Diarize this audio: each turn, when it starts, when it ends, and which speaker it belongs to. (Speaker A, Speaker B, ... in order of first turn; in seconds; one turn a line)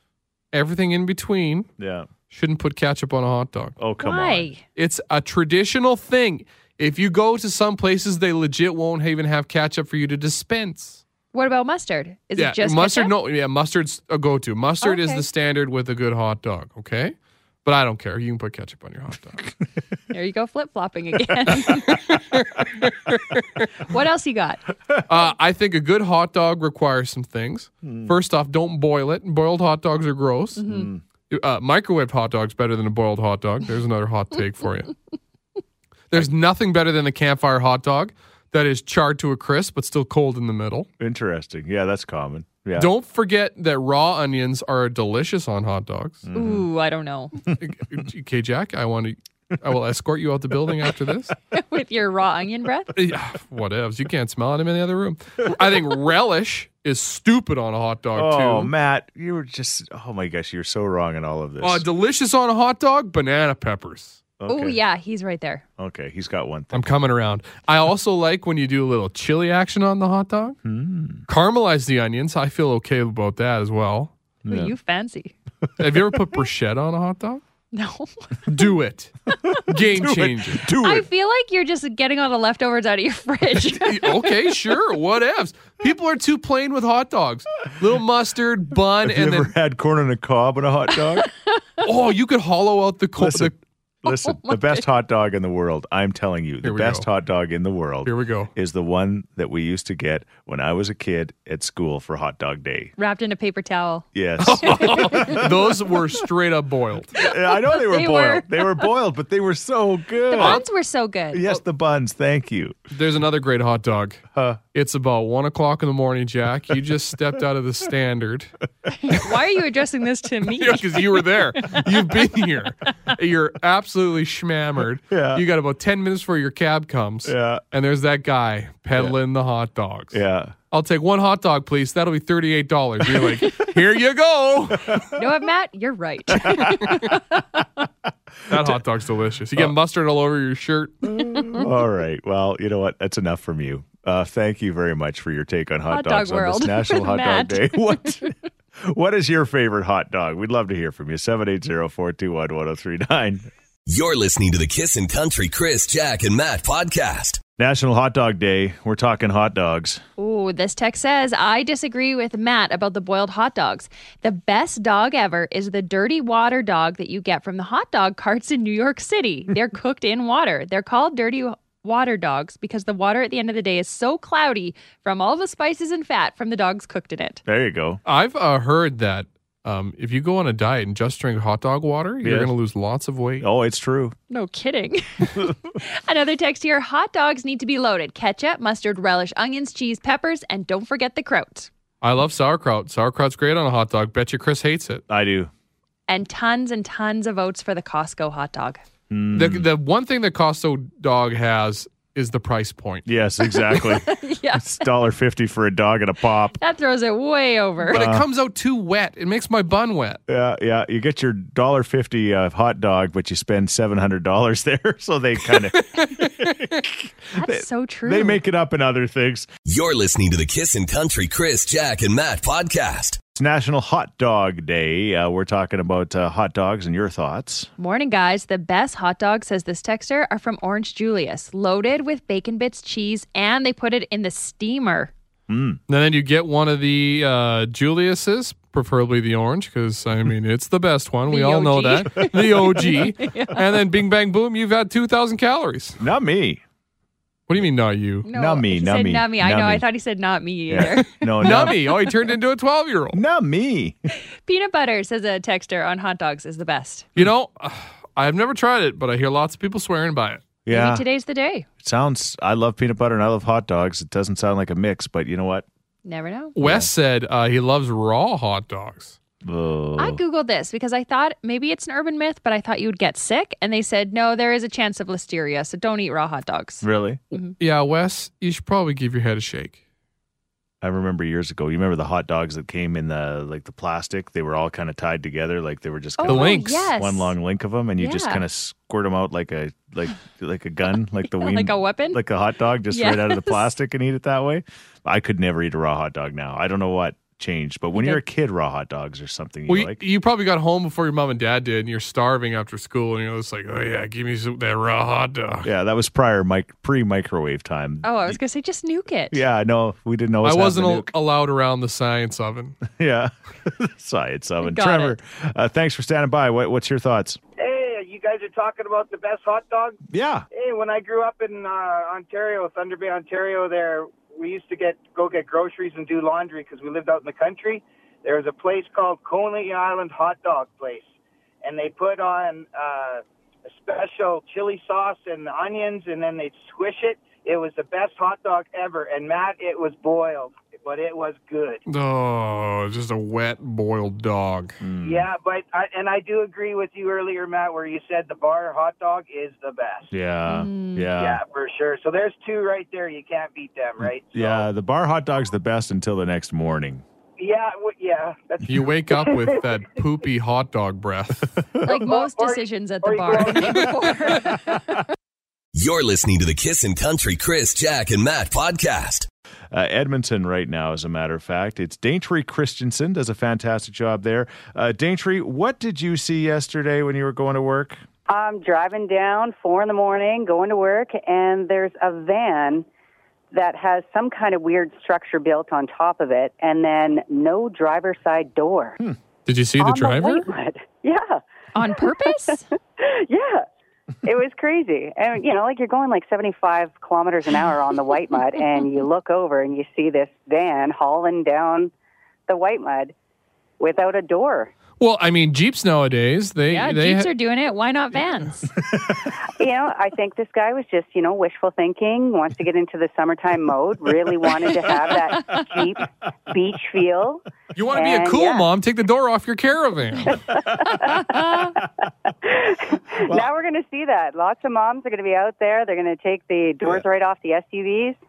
Speaker A: 0.5-1.7
Speaker B: 1.8-2.1
Speaker A: 2.3-3.8
Speaker B: 3.8-4.5
Speaker C: 4.0-4.6
Speaker A: 4.8-11.0
Speaker C: 11.3-13.1
Speaker A: 12.4-19.5
Speaker C: 14.8-15.2
Speaker C: 20.1-22.1
Speaker A: 21.9-23.6
Speaker C: 23.8-24.6
Speaker A: 25.1-30.6
Speaker B: 27.8-28.1
Speaker C: 30.6-30.9
Speaker B: 30.6-31.0
Speaker A: 31.3-34.9
Speaker A: 36.1-40.9
Speaker B: 41.0-42.9
Speaker A: 42.8-46.3
Speaker B: 46.2-46.7
Speaker C: 46.3-47.3
Speaker A: 47.6-51.3
Speaker C: 51.5-52.9
Speaker A: 53.0-58.7
Speaker B: 58.1-61.9
Speaker A: 61.6-64.2
Speaker B: 64.4-64.8
Speaker C: 64.5-65.6
Speaker B: 65.8-66.9
Speaker A: 66.7-70.6
Speaker B: 70.6-71.2
Speaker A: 71.3-74.1
Speaker B: 74.4-74.7
Speaker C: 74.5-75.3
Speaker A: 75.8-77.4
Speaker C: 77.7-78.1
Speaker A: 78.5-79.1
Speaker A: 79.7-80.7
Speaker B: 79.7-81.1
Speaker C: 80.8-84.2
Speaker A: 83.7-89.5
Speaker B: 89.0-91.3
Speaker A: 91.8-93.6
Speaker B: 93.2-93.5
Speaker B: 94.0-102.9
Speaker C: 94.1-94.8
Speaker A: 96.6-97.1
Speaker A: 98.0-98.5
Speaker C: 103.0-104.1
Speaker B: 104.1-105.7
Speaker A: 104.4-107.1
Speaker C: 104.8-105.4
Speaker B: 107.2-110.6
Speaker C: 107.2-108.9
Speaker C: 110.3-111.5
Speaker A: 110.4-110.6
Speaker B: 111.3-112.8
Speaker A: 112.9-114.2
Speaker A: 114.7-118.5
Speaker C: 119.0-121.2
Speaker A: 120.6-130.2
Speaker B: 125.1-125.5
Speaker B: 127.2-127.6
Speaker B: 130.1-130.5
Speaker A: 130.7-135.1
Speaker B: 134.9-135.2
Speaker C: 135.1-137.7
Speaker B: 136.4-136.8
Speaker A: 136.7-137.1
Speaker B: 138.5-138.8
Speaker A: 138.5-141.5
Speaker B: 141.1-153.4
Speaker C: 145.9-148.3
Speaker D: 153.9-157.4
Speaker B: 157.6-160.0
Speaker C: 160.2-177.4
Speaker B: 177.5-178.0
Speaker A: 178.1-183.5
Speaker B: 182.2-182.5
Speaker B: 183.4-184.2
Speaker C: 184.3-191.7
Speaker A: 192.0-195.0
Speaker B: 195.1-195.5
Speaker C: 196.1-198.8
Speaker B: 199.1-199.7
Speaker A: 199.3-203.1
Speaker B: 203.1-206.6
Speaker C: 203.7-204.9
Speaker C: 206.6-208.0
Speaker A: 207.9-210.2
Speaker B: 207.9-208.2
Speaker B: 210.3-219.5
Speaker A: 215.8-216.5
Speaker C: 217.3-218.4
Speaker D: 219.7-223.2
Speaker B: 223.3-227.7
Speaker C: 227.8-235.1
Speaker B: 235.5-235.8
Speaker A: 235.9-246.0
Speaker C: 241.3-243.6
Speaker B: 246.0-246.6
Speaker A: 247.5-248.3
Speaker C: 248.2-251.6
Speaker B: 248.3-249.8
Speaker B: 250.7-251.9
Speaker A: 251.4-253.2
Speaker B: 253.1-254.0
Speaker C: 254.5-257.1
Speaker A: 257.2-260.5
Speaker B: 260.6-261.1
Speaker C: 260.7-261.7
Speaker B: 261.8-265.7
Speaker C: 266.1-266.6
Speaker A: 266.6-269.2
Speaker B: 266.6-266.9
Speaker B: 269.4-270.2
Speaker C: 270.0-277.6
Speaker B: 276.8-277.2
Speaker A: 277.6-279.8
Speaker B: 280.8-300.0
Speaker C: 286.2-287.4
Speaker A: 286.3-286.8
Speaker C: 288.0-288.4
Speaker C: 291.4-292.2
Speaker C: 292.9-293.7
Speaker C: 298.0-298.2
Speaker A: 299.7-305.7
Speaker B: 305.6-308.4
Speaker C: 308.0-309.4
Speaker B: 309.3-311.1
Speaker A: 310.4-312.8
Speaker B: 312.9-317.4
Speaker C: 314.6-315.1
Speaker E: 317.6-320.0
Speaker B: 320.1-320.5
Speaker E: 320.5-331.1
Speaker E: 331.6-341.8
Speaker A: 341.9-344.8
Speaker B: 344.8-345.3
Speaker E: 345.0-350.1
Speaker B: 350.1-351.4
Speaker C: 350.5-351.1
Speaker E: 351.2-354.7
Speaker B: 354.0-357.0
Speaker E: 357.4-359.6
Speaker A: 358.7-361.5
Speaker C: 361.8-365.1
Speaker E: 361.9-363.9
Speaker D: 365.7-369.3
Speaker B: 369.7-378.0
Speaker F: 378.3-382.9
Speaker F: 383.5-389.0
Speaker A: 389.5-390.5
Speaker F: 389.8-391.4
Speaker C: 391.8-392.7
Speaker F: 393.0-393.7
Speaker F: 394.2-401.9
Speaker F: 402.5-403.1
Speaker F: 403.8-404.7
Speaker A: 405.0-407.3
Speaker C: 406.7-408.7
Speaker F: 409.4-418.7
Speaker A: 417.8-420.4
Speaker F: 420.3-421.6
Speaker C: 421.2-421.7
Speaker F: 422.3-428.2
Speaker B: 423.2-423.5